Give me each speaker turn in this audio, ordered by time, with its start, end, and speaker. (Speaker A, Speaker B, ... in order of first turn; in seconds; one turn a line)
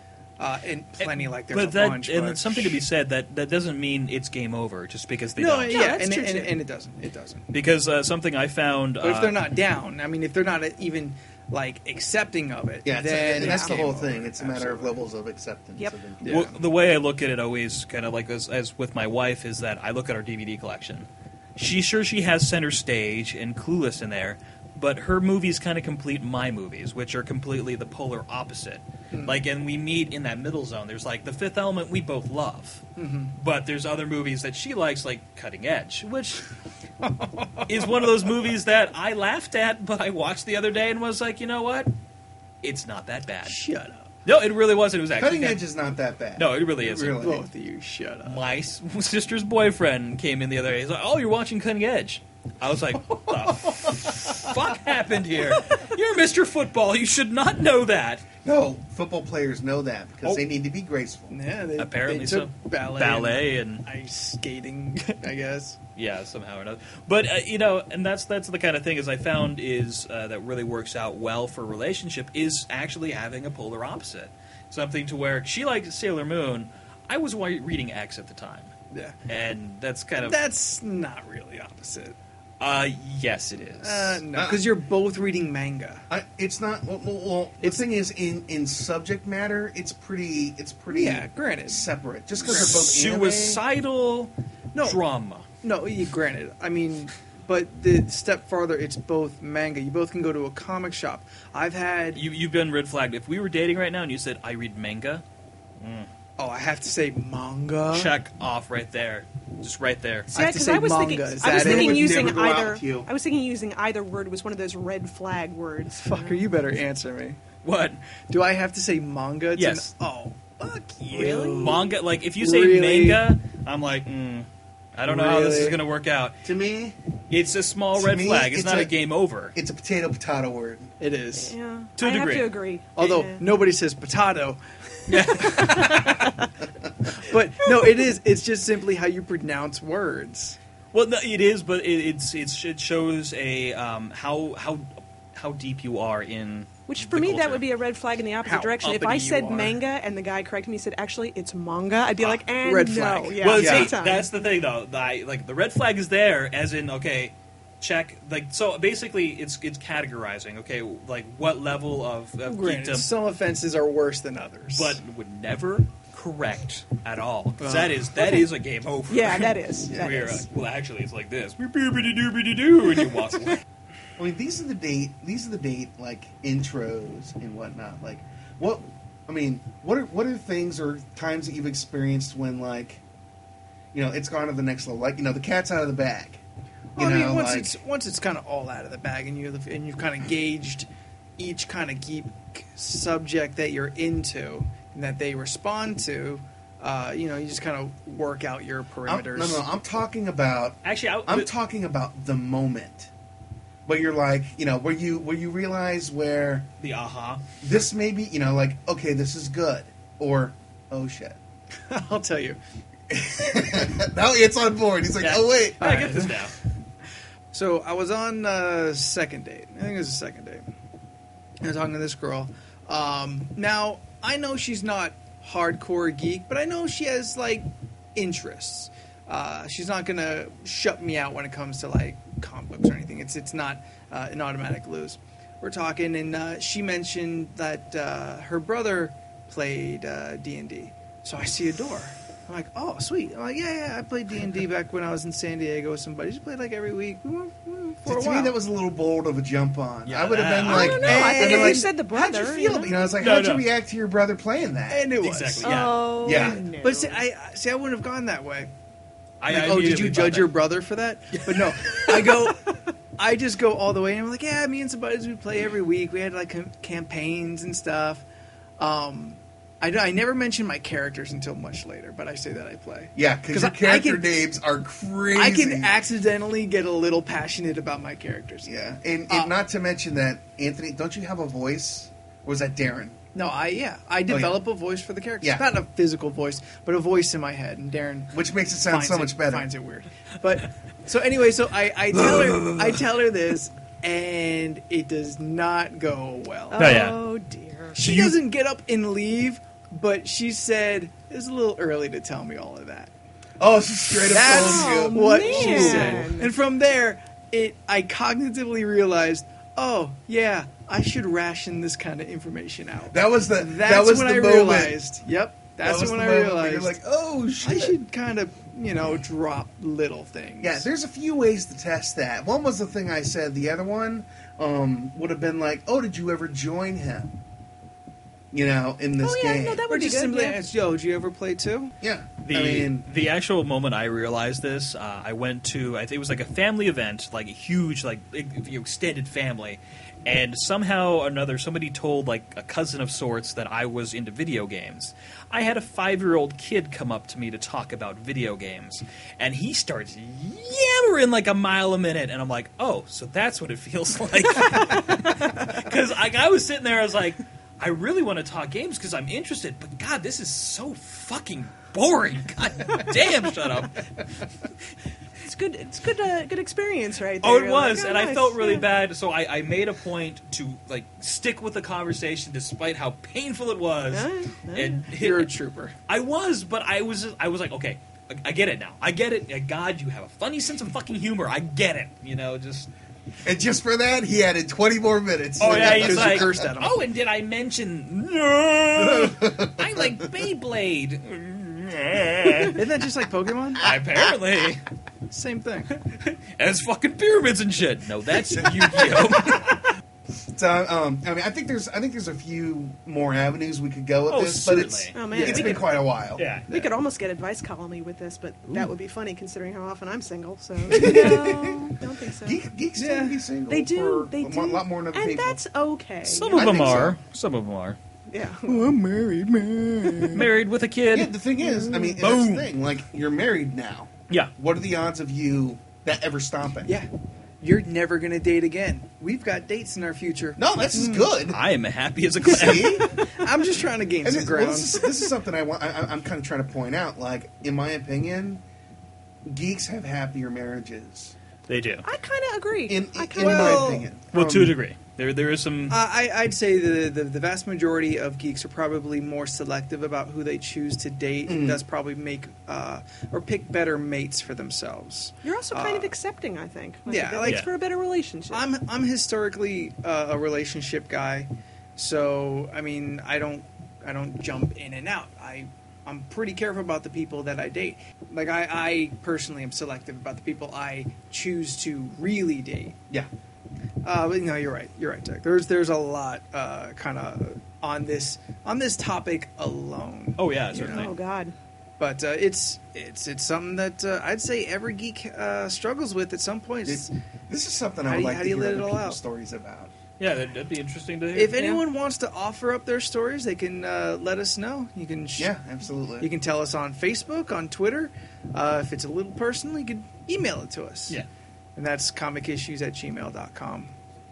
Speaker A: 0.4-2.8
Speaker B: 1.0-5.9
Speaker A: 5.4-7.5
Speaker C: 5.7-6.6
Speaker B: 7.5-9.4
Speaker A: 9.0-15.0
Speaker D: 12.8-16.3
Speaker C: 13.4-13.7
Speaker A: 16.2-16.6
Speaker B: 16.3-36.5
Speaker A: 29.1-29.4
Speaker A: 33.0-33.3
Speaker A: 37.0-37.7
Speaker B: 37.7-41.9
Speaker B: 42.6-43.6
Speaker A: 43.5-44.1
Speaker B: 44.3-45.6
Speaker D: 45.2-47.4
Speaker B: 46.4-47.4
Speaker A: 47.1-48.4
Speaker B: 48.2-58.3
Speaker D: 58.4-61.4
Speaker A: 61.3-65.8
Speaker B: 61.8-63.9
Speaker B: 66.0-78.7
Speaker B: 79.3-80.4
Speaker A: 80.2-82.2
Speaker B: 82.6-84.2
Speaker A: 83.8-86.0
Speaker D: 84.3-84.7
Speaker D: 86.1-93.6
Speaker A: 90.9-91.9
Speaker A: 92.5-92.7
Speaker B: 92.5-95.5
Speaker A: 94.7-95.0
Speaker A: 95.6-102.2
Speaker B: 102.2-105.2
Speaker B: 105.8-106.1
Speaker A: 106.4-108.1
Speaker B: 107.9-110.3
Speaker A: 110.3-112.3
Speaker C: 110.3-116.5
Speaker D: 111.4-113.1
Speaker A: 116.0-117.4
Speaker B: 117.6-118.0
Speaker A: 118.2-123.2
Speaker B: 119.5-119.9
Speaker C: 121.1-122.0
Speaker B: 121.2-126.4
Speaker A: 125.0-125.8
Speaker D: 126.4-127.0
Speaker B: 127.3-129.6
Speaker D: 128.0-128.9
Speaker D: 129.6-130.9
Speaker A: 131.0-131.6
Speaker C: 131.3-133.4
Speaker B: 132.0-132.6
Speaker A: 133.0-136.3
Speaker B: 135.1-136.1
Speaker C: 135.2-136.3
Speaker A: 137.1-140.6
Speaker B: 140.9-147.6
Speaker C: 146.9-154.3
Speaker A: 148.4-149.8
Speaker A: 152.6-153.9
Speaker B: 153.4-163.1
Speaker A: 162.5-165.0
Speaker B: 164.7-173.6
Speaker A: 167.6-168.1
Speaker C: 168.2-168.5
Speaker C: 169.1-170.5
Speaker D: 174.2-183.0
Speaker D: 183.9-186.4
Speaker D: 187.0-187.8
Speaker A: 187.0-199.6
Speaker D: 199.1-203.1
Speaker B: 200.8-201.5
Speaker D: 203.9-206.7
Speaker B: 206.8-207.4
Speaker D: 207.6-211.4
Speaker A: 211.9-212.6
Speaker D: 213.1-215.8
Speaker B: 215.2-216.5
Speaker A: 215.8-216.5
Speaker A: 217.5-220.6
Speaker A: 221.6-248.6
Speaker D: 248.1-255.1
Speaker B: 250.1-251.4
Speaker C: 250.7-253.1
Speaker A: 250.8-251.9
Speaker B: 253.2-253.7
Speaker A: 254.9-258.7
Speaker B: 255.2-256.2
Speaker C: 255.6-257.2
Speaker D: 256.2-256.6
Speaker B: 259.4-260.6
Speaker A: 259.5-268.2
Speaker B: 261.4-262.5
Speaker A: 268.8-274.3
Speaker D: 273.2-276.0
Speaker A: 275.4-278.7
Speaker D: 278.7-283.2
Speaker A: 283.3-297.0
Speaker D: 284.3-284.6
Speaker D: 285.4-285.7
Speaker D: 288.3-289.7
Speaker B: 292.4-292.8
Speaker C: 296.7-298.3
Speaker B: 296.8-297.2
Speaker A: 297.9-303.1
Speaker B: 298.0-298.4
Speaker D: 303.6-306.3
Speaker A: 304.2-317.0
Speaker C: 304.3-306.5
Speaker D: 313.1-315.0
Speaker D: 315.8-318.0
Speaker A: 317.6-320.9
Speaker D: 320.6-327.4
Speaker D: 328.5-329.9
Speaker C: 329.2-330.6
Speaker A: 329.9-331.9
Speaker D: 332.0-333.1
Speaker B: 332.4-364.2
Speaker C: 354.9-355.1
Speaker C: 365.4-368.9
Speaker B: 367.4-375.5
Speaker C: 374.1-375.0
Speaker A: 375.2-375.9
Speaker B: 376.1-382.9
Speaker D: 383.4-386.6
Speaker A: 385.6-387.0
Speaker B: 385.6-392.8
Speaker D: 389.0-390.2
Speaker A: 392.7-394.0
Speaker B: 393.8-394.8
Speaker A: 395.3-395.9
Speaker B: 396.1-399.9
Speaker D: 398.5-399.7
Speaker D: 400.4-406.5
Speaker B: 404.3-405.2
Speaker C: 405.1-405.9
Speaker A: 405.3-405.8
Speaker B: 406.4-406.7
Speaker C: 406.7-412.6
Speaker D: 410.9-415.6
Speaker A: 413.0-413.4
Speaker C: 413.7-417.1
Speaker B: 416.3-418.0
Speaker D: 416.5-417.2
Speaker C: 418.3-418.9
Speaker A: 418.7-420.5
Speaker B: 420.2-421.3
Speaker D: 421.1-427.0
Speaker C: 421.8-422.2
Speaker B: 422.2-422.7
Speaker A: 427.6-431.4
Speaker D: 430.6-431.6
Speaker B: 431.5-433.2
Speaker D: 432.4-433.2
Speaker A: 432.7-435.1
Speaker D: 434.2-438.6
Speaker D: 439.4-441.4
Speaker B: 441.7-442.1
Speaker C: 442.0-443.9
Speaker D: 442.9-444.8
Speaker A: 443.4-444.1
Speaker B: 444.3-446.0
Speaker A: 445.9-456.1
Speaker D: 451.5-451.8
Speaker C: 455.4-458.6
Speaker A: 457.1-457.7
Speaker B: 457.4-457.7
Speaker A: 458.5-473.0
Speaker A: 474.0-481.1
Speaker B: 480.4-481.1
Speaker C: 480.7-481.6
Speaker A: 482.0-487.1
Speaker D: 486.8-489.9
Speaker A: 488.1-489.2
Speaker B: 490.2-491.9
Speaker A: 491.4-495.5
Speaker D: 495.4-496.3
Speaker A: 496.2-501.2
Speaker A: 501.8-503.9